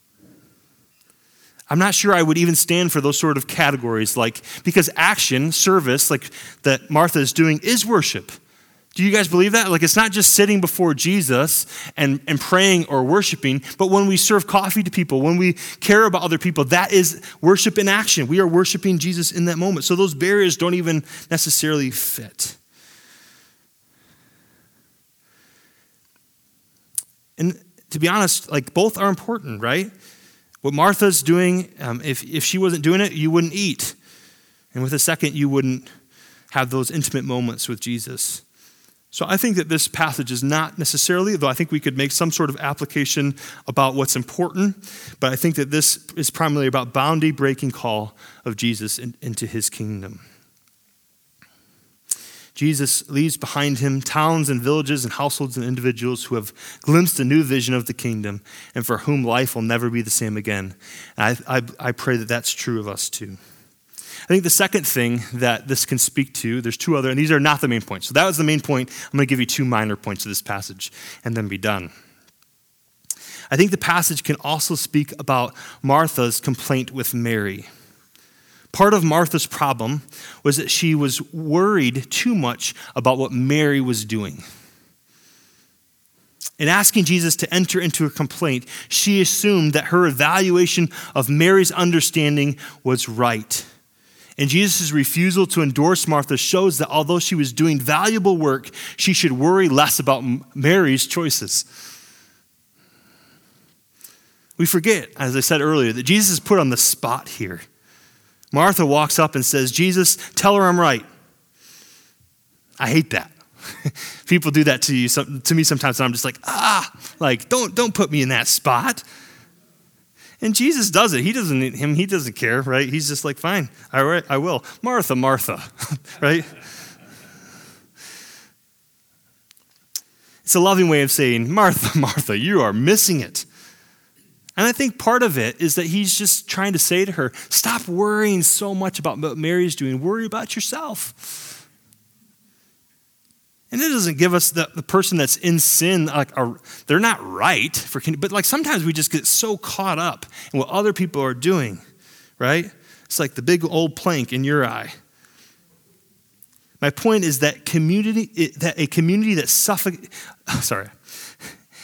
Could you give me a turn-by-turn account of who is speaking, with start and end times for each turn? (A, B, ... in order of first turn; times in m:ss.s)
0:01.7-0:08.4 A
0:09.0-0:22.6 A
0:27.4-0:29.9 A
0:30.6-0:34.0 A
0:34.7-0:35.9 A
0:36.5-0:38.4 A
0:39.1-0:50.2 A
0:52.6-1:03.4 A
1:04.3-1:11.9 A
1:13.5-1:17.7 A
1:18.7-1:24.4 A
1:26.6-1:33.7 A
1:34.4-1:41.7 A
1:44.6-1:47.7 A
1:48.5-1:51.1 A
1:52.8-1:59.0 A
2:00.4-2:06.5 A
2:10.4-2:13.5 A
2:14.6-2:21.5 A
2:23.7-2:31.8 A
2:32.4-2:35.0 A
2:36.8-2:41.5 A